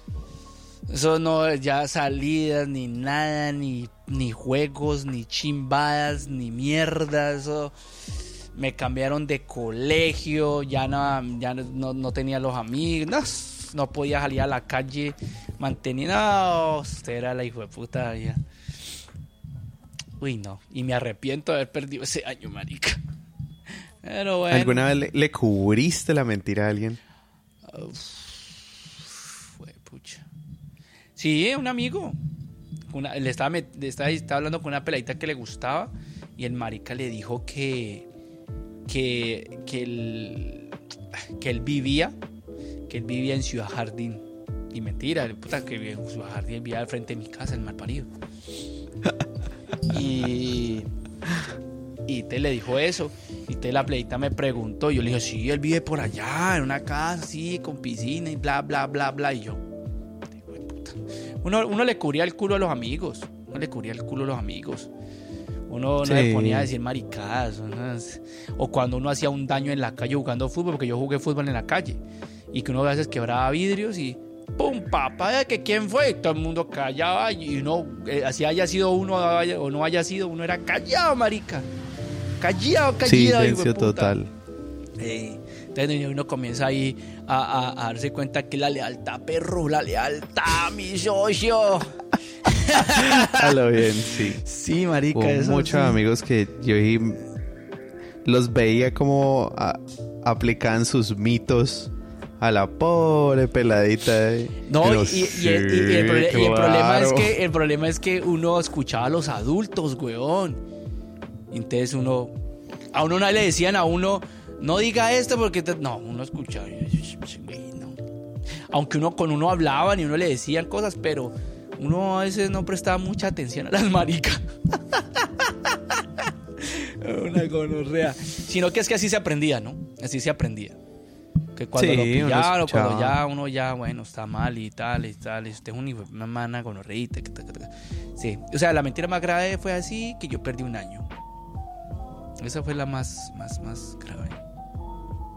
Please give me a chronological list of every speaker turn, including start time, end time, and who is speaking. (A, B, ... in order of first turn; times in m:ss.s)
0:00.9-0:07.7 A
0:08.5-0:18.4 A
0:20.2-0:23.0 A
0:24.0-0:24.9 A
0:24.5-0:27.0 B
0:27.7-0:30.2 A
0:31.2-0:32.2 A
0:32.9-0:38.1 A
0:38.9-0:40.8 A
0:41.4-0:42.2 A
0:42.9-0:48.1 A
0:49.9-0:50.9 A
0:52.1-0:59.6 A
1:00.4-1:04.9 A
1:05.7-1:21.7 A
1:06.0-1:06.7 B
1:22.4-1:24.2 A
1:23.0-1:24.3 B
1:25.0-1:33.6 A
1:32.7-1:34.4 B
1:34.4-1:36.0 A
1:35.1-1:37.2 B
1:38.2-1:47.4 B
1:44.7-1:50.6 A
1:51.5-1:52.3 A
1:52.9-1:58.0 A
1:58.7-2:10.8 A
2:11.6-2:21.1 A
2:11.8-2:13.2 B
2:22.4-2:24.4 A